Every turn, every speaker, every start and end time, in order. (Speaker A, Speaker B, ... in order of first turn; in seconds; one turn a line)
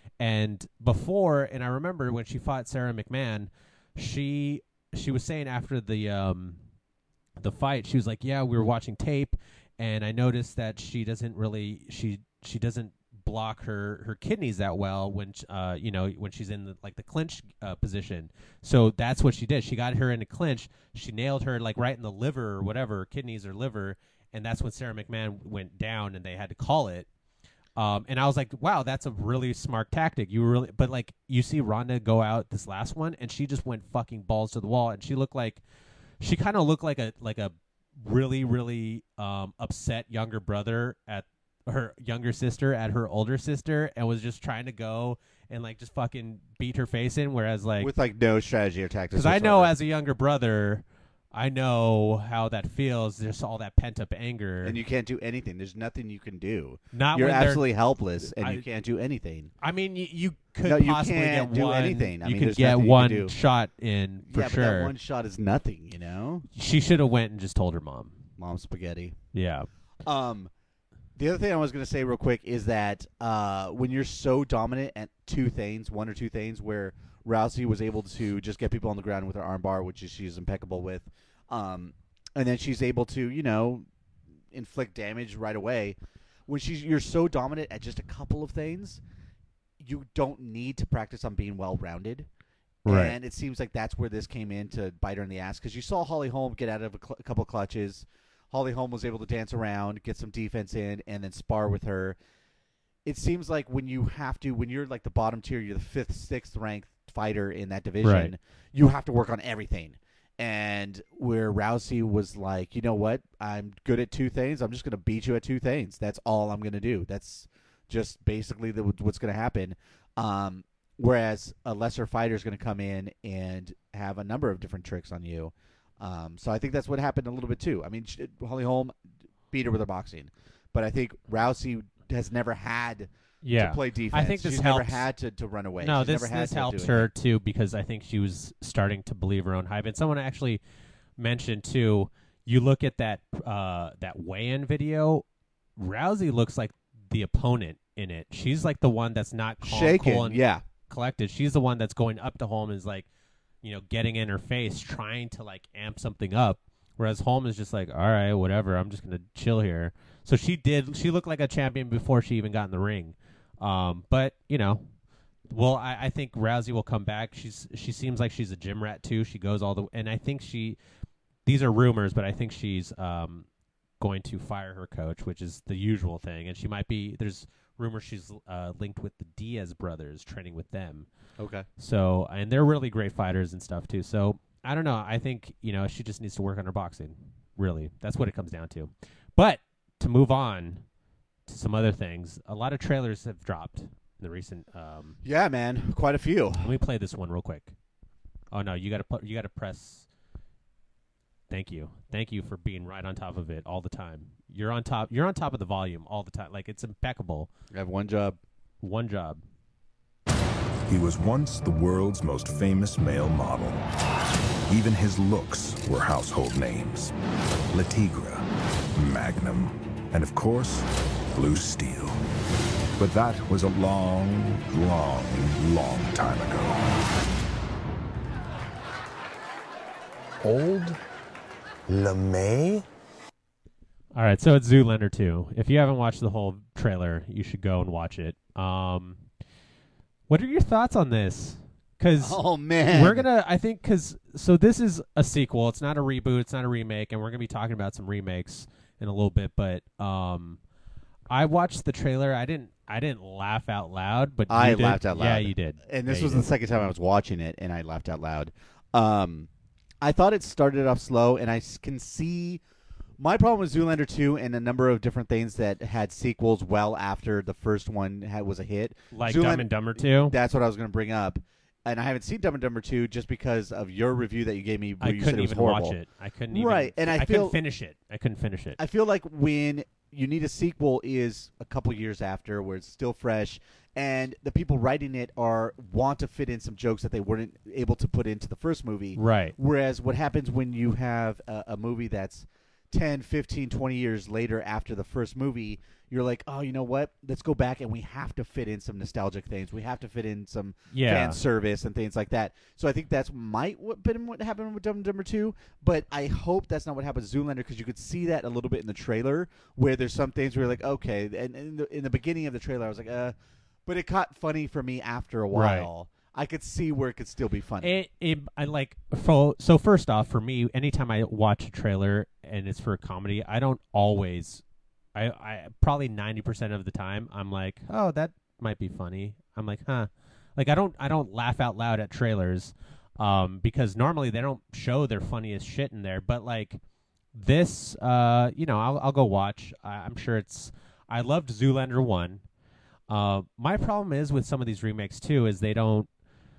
Speaker A: 0.2-6.6
Speaker A: 7.4-27.1
Speaker A: 27.8-35.6
Speaker A: 36.2-47.9
Speaker B: 47.8-49.7
Speaker A: 49.1-54.8
Speaker B: 54.6-59.5
Speaker A: 56.9-57.7
Speaker A: 58.2-58.6
Speaker A: 59.6-64.9
Speaker B: 60.6-63.3
Speaker B: 64.3-66.5
Speaker A: 66.5-68.2
Speaker B: 68.4-69.2
Speaker A: 69.3-69.7
Speaker B: 70.0-70.5
Speaker B: 71.2-83.9
Speaker B: 84.5-89.0
Speaker B: 89.8-92.3
Speaker A: 92.8-93.2
Speaker B: 92.8-102.2
Speaker B: 103.0-128.9
Speaker A: 108.0-108.3
Speaker B: 129.5-137.1
Speaker A: 133.4-135.1
Speaker A: 135.8-140.6
Speaker A: 141.2-145.2
Speaker A: 145.8-153.1
Speaker B: 149.6-150.6
Speaker A: 153.6-164.9
Speaker A: 165.5-170.8
Speaker A: 171.4-173.5
Speaker A: 174.0-181.1
Speaker B: 181.4-181.7
Speaker A: 181.8-190.8
Speaker A: 191.5-195.2
Speaker B: 195.2-196.7
Speaker A: 196.6-197.7
Speaker A: 198.5-200.1
Speaker A: 201.5-207.5
Speaker B: 207.7-208.4
Speaker A: 208.8-209.4
Speaker C: 210.9-213.8
Speaker C: 214.7-217.1
Speaker C: 217.7-218.4
Speaker C: 218.9-222.2
Speaker C: 223.0-227.1
Speaker C: 230.4-231.0
Speaker C: 231.9-232.8
Speaker A: 234.1-239.2
Speaker A: 240.3-250.6
Speaker B: 242.2-243.3
Speaker A: 251.3-256.5
Speaker B: 254.5-259.5
Speaker B: 260.0-262.6
Speaker B: 263.2-276.0
Speaker A: 269.1-270.4
Speaker A: 275.0-278.8
Speaker B: 276.5-277.6
Speaker B: 278.8-313.3
Speaker A: 289.1-289.5
Speaker A: 300.9-301.4
Speaker B: 313.9-318.0
Speaker A: 315.5-315.9
Speaker A: 317.8-324.6
Speaker A: 325.1-336.8
Speaker A: 337.3-342.4
Speaker A: 343.1-346.1